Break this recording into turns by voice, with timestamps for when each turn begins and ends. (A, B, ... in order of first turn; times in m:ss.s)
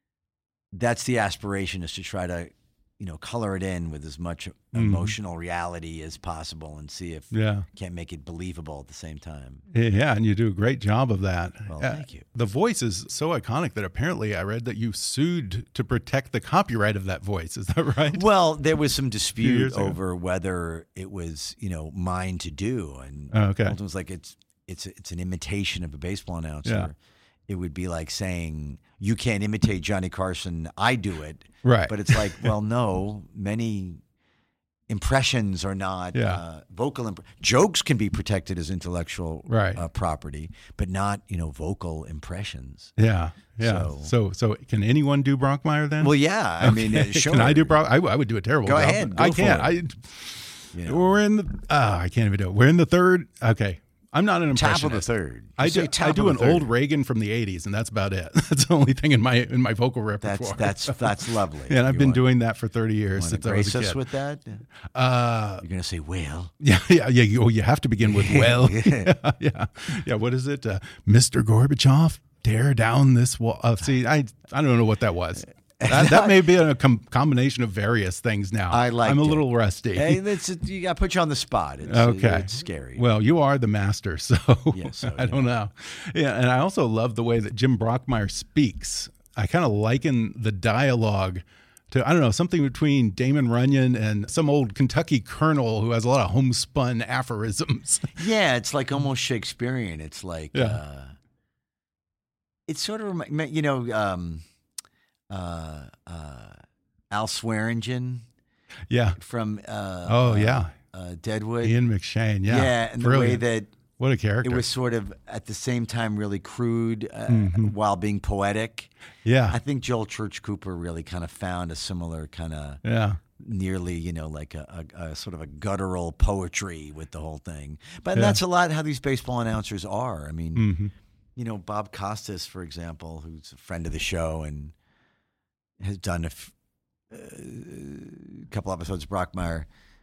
0:00.7-0:09.7 A
0:04.7-0:05.2 B
0:07.3-0:07.7 B
0:09.7-0:18.2 B
0:11.7-0:12.2 A
0:18.1-0:27.0 A
0:19.4-0:20.0 B
0:23.3-0:23.8 B
0:26.6-0:26.9 B
0:27.5-0:34.0 A
0:31.6-0:32.5 B
0:34.9-0:43.0 A
0:36.1-0:36.4 B
0:39.5-0:39.8 B
0:43.0-1:04.0 B
0:43.6-0:44.1 A
0:46.0-0:47.8 A
0:48.6-0:49.7 A
0:50.7-0:51.2 A
0:54.5-0:56.7 A
1:00.2-1:02.3 A
1:03.2-1:04.6 A
1:04.9-1:05.6 B
1:05.6-1:06.5 A
1:06.6-1:20.2 B
1:08.0-1:09.2 A
1:15.8-1:16.5 A
1:18.7-1:23.0 A
1:21.9-1:38.2 B
1:24.7-1:25.5 A
1:38.2-1:41.1 A
1:40.5-1:40.8 B
1:42.7-1:44.4 A
1:45.3-1:46.6 A
1:47.1-1:48.2 A
1:48.9-1:49.2 B
1:49.2-1:51.8 A
1:50.1-1:50.7 B
1:51.6-1:53.4 B
1:52.5-1:53.8 A
1:54.0-1:54.7 B
1:54.4-1:58.9 A
1:57.3-1:57.7 B
1:59.2-1:59.6 B
1:59.5-2:02.8 A
2:02.8-2:03.2 B
2:03.4-2:10.7 A
2:08.1-2:08.4 B
2:10.6-2:10.9 B
2:11.4-2:14.7 A
2:15.8-2:16.5 A
2:17.1-2:19.7 A